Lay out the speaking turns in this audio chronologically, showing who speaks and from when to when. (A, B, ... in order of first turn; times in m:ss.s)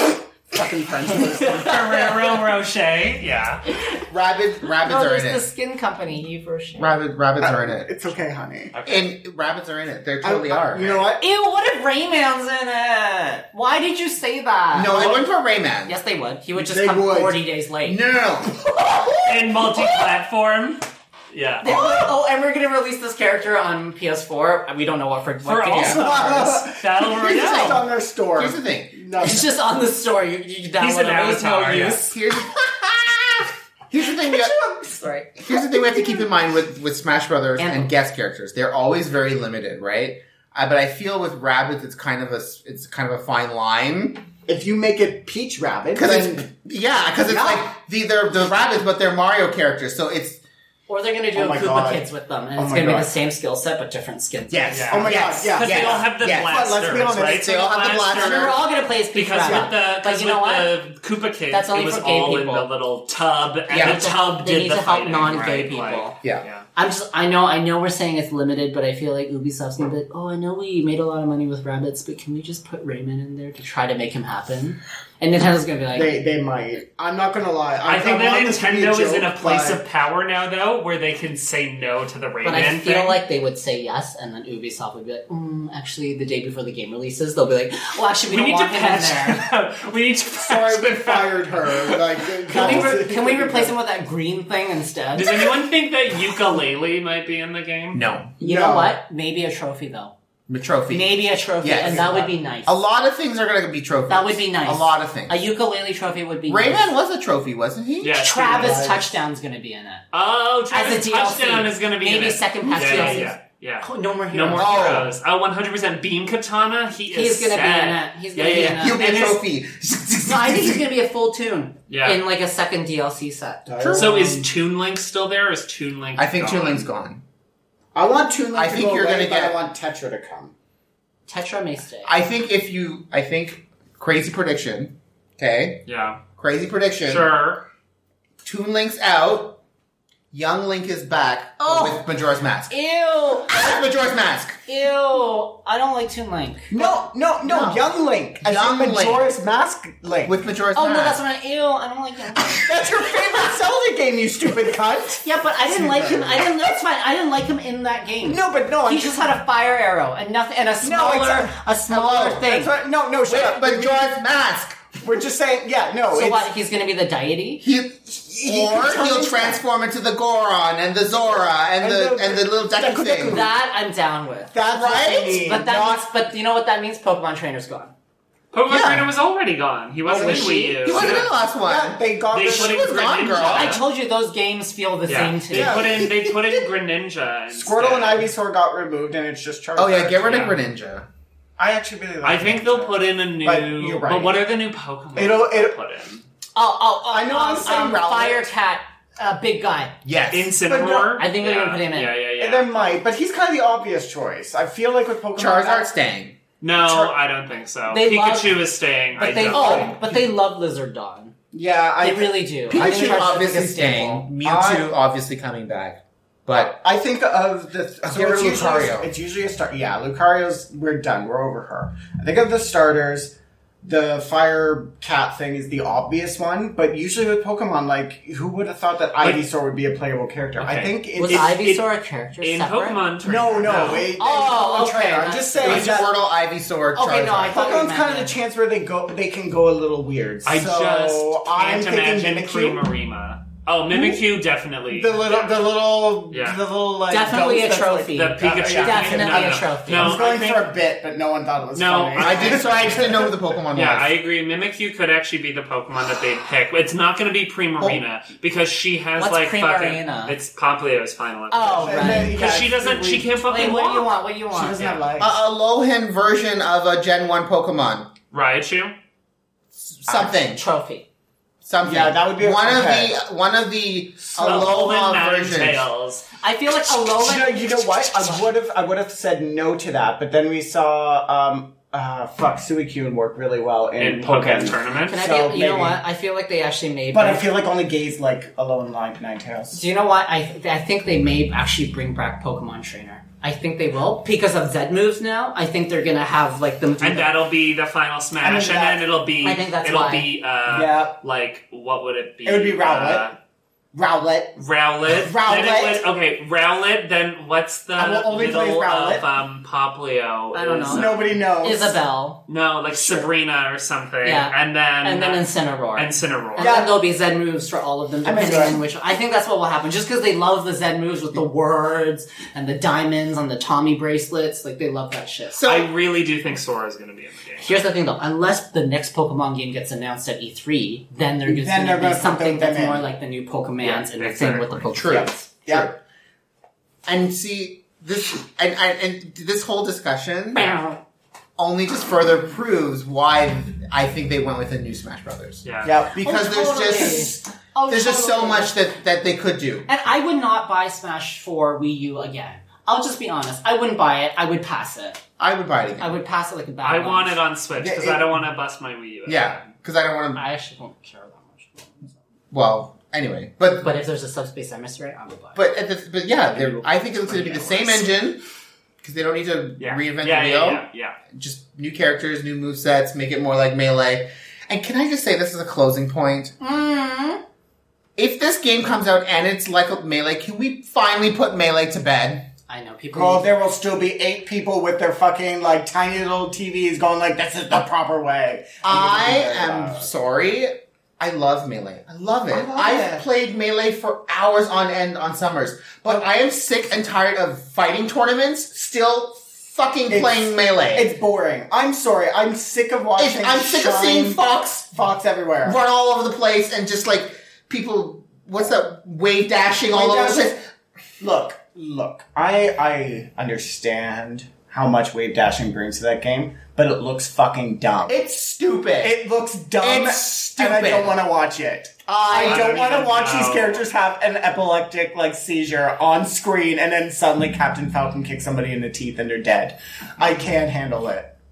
0:00.5-0:02.3 A
0:01.4-0:03.6 B
0:03.7-0:04.0 A
0:04.1-0:05.4 C
0:04.8-0:06.9 A
0:06.8-0:07.9 C
0:07.4-0:08.8 D
0:08.7-0:09.0 B
0:08.8-0:11.0 C
0:10.2-0:11.2 D
0:11.2-0:15.2 A
0:14.7-0:15.9 C
0:15.9-0:18.0 A
0:16.6-0:17.4 D
0:17.8-0:18.6 C
0:19.2-0:21.8 B
0:21.6-0:26.6 A
0:25.4-0:27.8 B
0:25.7-0:26.0 C
0:25.9-0:29.5 D
0:27.2-0:27.8 C
0:28.4-0:29.0 C
0:29.2-0:32.2 A
0:30.8-0:32.0 B
0:31.7-0:34.6 C
0:34.6-0:35.3 A
0:35.4-0:44.3 C
0:37.6-0:37.9 A
0:44.4-0:46.4 D
0:45.9-0:50.4 C
0:47.3-0:47.7 D
0:50.9-0:55.4 A
0:51.3-0:53.1 D
0:54.5-0:56.7 C
0:54.7-1:06.7 B
0:54.9-0:57.5 D
0:57.2-0:58.6 C
0:58.2-1:00.8 A
0:59.4-0:59.7 D
1:01.5-1:02.7 A
1:03.7-1:06.2 A
1:03.7-1:04.0 C
1:06.8-1:16.1 A
1:15.9-1:19.8 D
1:17.8-1:23.2 B
1:22.4-1:29.4 A
1:28.3-1:32.9 B
1:30.4-1:33.8 D
1:32.5-1:35.3 A
1:35.1-1:38.0 B
1:37.9-1:38.3 C
1:38.4-1:40.1 A
1:38.4-1:39.0 D
1:40.5-1:45.4 C
1:40.9-1:42.7 A
1:41.8-1:42.3 D
1:44.1-1:46.9 A
1:46.5-1:48.2 C
1:48.0-1:48.8 B
1:48.2-1:50.0 A
1:48.5-1:49.0 D
1:50.1-1:59.4 B
1:50.7-1:55.0 A
1:52.8-1:53.3 D
1:54.5-1:55.1 C
1:57.1-1:59.0 A
1:58.5-2:00.9 C
2:00.2-2:03.6 A
2:01.9-2:02.2 B
2:03.7-2:04.5 D
2:03.8-2:04.1 C
2:04.0-2:06.8 B
2:06.2-2:07.2 C
2:07.9-2:10.5 D
2:08.5-2:09.6 C
2:11.3-2:12.1 A
2:12.0-2:15.8 C
2:15.9-2:16.2 B
2:16.4-2:17.3 C
2:17.0-2:17.6 B
2:18.4-2:19.6 C
2:20.3-2:22.7 C
2:21.6-2:22.0 A
2:22.7-2:23.8 A
2:23.5-2:24.6 C
2:24.6-2:27.0 A
2:26.7-2:30.3 D
2:27.4-2:27.8 C
2:28.4-2:29.2 C
2:30.2-2:31.2 C
2:30.7-2:32.7 A
2:32.4-2:36.4 D
2:35.2-2:42.7 A
2:38.2-2:39.3 D
2:40.8-2:41.5 D
2:41.9-2:42.4 C
2:42.3-2:44.2 D
2:43.2-2:45.0 C
2:45.0-2:46.5 D
2:46.1-2:47.6 A
2:47.6-2:53.4 C
2:48.4-2:49.6 D
2:51.8-2:53.5 D
2:53.2-2:57.9 A
2:54.5-2:56.0 D
2:54.7-2:55.3 C
2:58.5-3:01.3 B
2:58.7-2:59.0 C
3:00.1-3:00.8 A
3:00.1-3:03.0 D
3:00.8-3:03.8 C
3:02.3-3:03.8 B
3:03.4-3:05.9 A
3:05.1-3:08.3 B
3:05.5-3:06.6 D
3:07.5-3:10.5 D
3:09.8-3:11.1 C
3:10.3-3:10.6 B
3:11.6-3:14.4 D
3:12.2-3:16.2 B
3:15.2-3:15.7 D
3:16.5-3:19.9 A
3:17.1-3:18.1 D
3:17.7-3:18.5 C
3:20.0-3:20.6 C
3:20.3-3:22.7 B
3:20.6-3:21.2 D
3:21.2-3:22.2 A
3:22.4-3:25.9 D
3:25.4-3:26.4 C
3:26.6-3:30.0 B
3:26.8-3:27.1 A
3:27.9-3:28.6 A
3:29.2-3:31.3 A
3:29.5-3:30.0 C
3:29.5-3:30.2 D
3:31.5-3:33.3 D
3:32.0-3:34.3 A
3:32.7-3:36.8 C
3:34.4-3:34.9 D
3:36.6-3:51.8 D
3:38.1-3:39.1 C
3:50.6-3:51.8 B
3:51.2-3:53.0 A
3:52.4-3:54.1 B
3:53.2-3:56.1 D
3:53.6-3:56.0 A
3:55.6-3:57.7 C
3:56.9-3:58.4 A
3:57.5-4:02.8 D
4:00.4-4:05.6 B
4:03.9-4:04.2 D
4:04.9-4:13.4 D
4:06.3-4:06.6 B
4:07.1-4:10.2 A
4:08.1-4:10.7 B
4:11.7-4:12.7 B
4:12.1-4:14.1 C
4:13.7-4:25.0 B
4:19.2-4:20.3 A
4:21.5-4:22.5 A
4:21.7-4:23.3 D
4:23.4-4:24.9 A
4:24.5-4:25.3 D
4:25.2-4:28.1 C
4:28.3-4:28.9 B
4:29.7-4:30.6 C
4:30.2-4:31.1 A
4:31.6-4:35.8 C
4:31.8-4:33.1 D
4:34.4-4:36.2 B
4:36.4-4:38.4 A
4:37.1-4:46.0 D
4:44.0-4:45.2 B
4:45.1-4:47.5 A
4:47.1-4:49.8 D
4:49.7-4:57.3 A
4:57.0-5:03.4 B
4:58.4-4:59.0 D
4:59.4-5:00.3 A
5:00.7-5:01.2 D
5:02.4-5:03.3 D
5:03.9-5:04.5 D
5:04.6-5:11.4 B
5:05.0-5:06.0 D
5:08.0-5:09.2 D
5:10.5-5:12.4 A
5:10.8-5:12.0 D
5:12.5-5:16.9 B
5:12.9-5:13.3 D
5:14.2-5:25.6 A
5:16.6-5:17.0 D
5:18.2-5:18.8 D
5:25.5-5:25.9 C
5:25.6-5:27.8 B
5:27.6-5:35.5 A
5:31.5-5:33.0 D
5:33.8-5:34.9 B
5:34.9-5:36.0 C
5:35.1-5:35.9 D
5:37.0-5:40.8 C
5:40.5-5:41.0 A
5:41.6-5:49.9 C
5:45.6-5:45.9 B
5:45.8-5:47.2 D
5:46.2-5:48.7 A
5:49.9-5:55.2 A
5:55.4-5:56.2 C
5:56.0-5:57.4 A
5:56.8-5:59.7 B
5:57.7-5:58.4 D
5:59.2-6:00.4 C
6:00.3-6:02.2 A
6:02.5-6:03.9 C
6:03.8-6:05.6 A
6:05.5-6:08.4 C
6:06.5-6:07.9 B
6:09.0-6:16.5 C
6:09.8-6:11.2 B
6:16.6-6:17.4 A
6:18.2-6:22.5 C
6:22.7-6:23.5 A
6:23.1-6:30.1 D
6:28.8-6:41.1 C
6:32.5-6:33.2 D
6:40.1-6:44.4 D
6:43.2-6:45.0 C
6:44.9-6:45.8 D
6:45.6-6:50.6 C
6:49.9-6:50.6 D
6:51.2-6:58.2 D
6:58.1-6:59.2 C
6:59.0-7:11.3 D
6:59.8-7:01.2 C
7:02.3-7:03.8 B
7:02.3-7:02.7 A